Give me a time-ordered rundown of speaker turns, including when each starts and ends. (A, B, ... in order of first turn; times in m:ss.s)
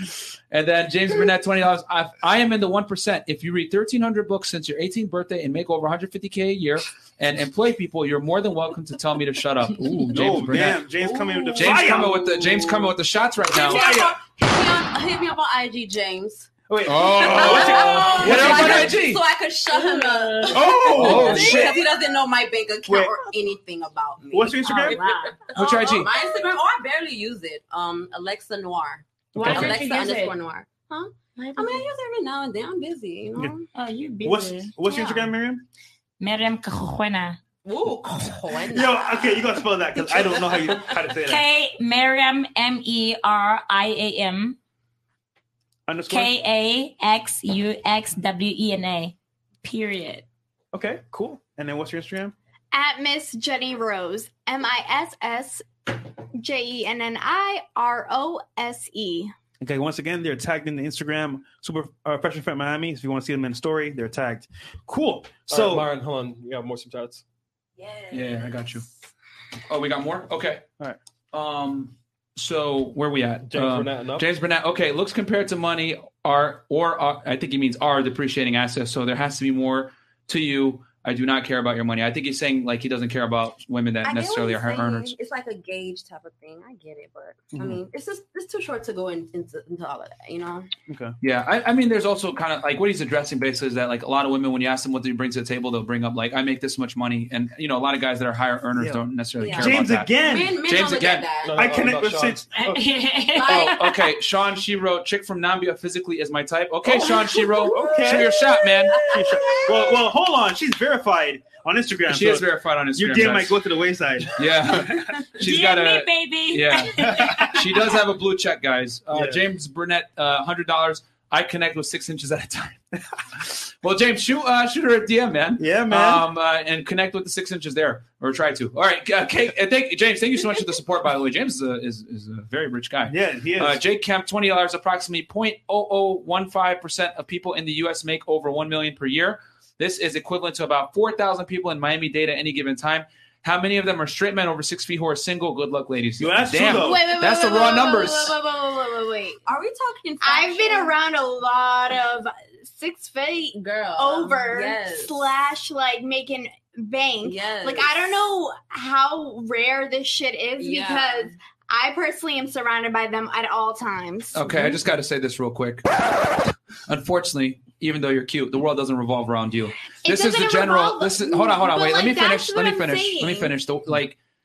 0:00.5-0:10.8 A
0:10.1-0:12.8 B
0:11.0-0:12.2 C
0:11.6-0:13.9 A
0:13.4-0:16.5 C
0:13.6-0:14.2 B
0:16.7-0:19.0 B
0:16.8-0:19.2 A
0:17.2-0:33.7 C
0:19.7-0:20.7 D
0:20.5-0:21.8 B
0:20.8-0:21.8 A
0:22.9-0:23.2 B
0:24.3-0:25.0 B
0:24.6-0:25.4 D
0:25.5-0:26.1 A
0:29.4-0:30.4 D
0:29.4-0:29.7 B
0:31.4-0:31.9 D
0:33.8-0:35.3 D
0:34.2-0:35.6 B
0:36.2-0:37.4 D
0:37.6-0:40.8 C
0:38.7-0:41.4 B
0:41.1-0:44.6 D
0:45.9-0:46.3 B
0:46.1-0:50.3 D
0:50.7-0:52.4 B
0:52.7-0:55.7 E
0:56.4-0:59.3 E
0:59.6-1:05.9 B
1:05.5-1:07.2 F
1:07.8-1:08.8 C
1:08.1-1:08.9 A
1:09.7-1:10.6 A
1:11.3-1:25.1 A
1:13.5-1:14.3 F
1:24.0-1:30.7 C
1:30.9-1:31.2 B
1:31.2-1:41.3 A
1:38.8-1:40.6 B
1:39.4-1:41.8 C
1:41.4-1:42.5 F
1:41.6-1:42.8 B
1:42.6-1:44.0 D
1:43.3-1:43.8 C
1:43.5-1:49.0 A
1:47.0-1:48.3 B
1:48.1-1:48.3 C
1:48.8-1:50.0 C
1:49.1-1:55.2 B
1:52.1-1:53.6 A
1:54.4-2:02.8 A
1:55.4-1:57.9 D
1:59.1-1:59.4 B
2:03.4-2:28.4 A
2:05.6-2:06.2 B
2:13.1-2:13.8 B
2:26.2-2:27.0 B
2:26.7-2:30.9 C
2:27.0-2:29.4 E
2:30.2-2:44.5 E
2:33.6-2:35.3 C
2:37.2-2:38.1 C
2:40.6-2:41.4 C
2:44.3-2:45.9 A
2:46.9-2:54.2 A
2:50.0-2:53.5 E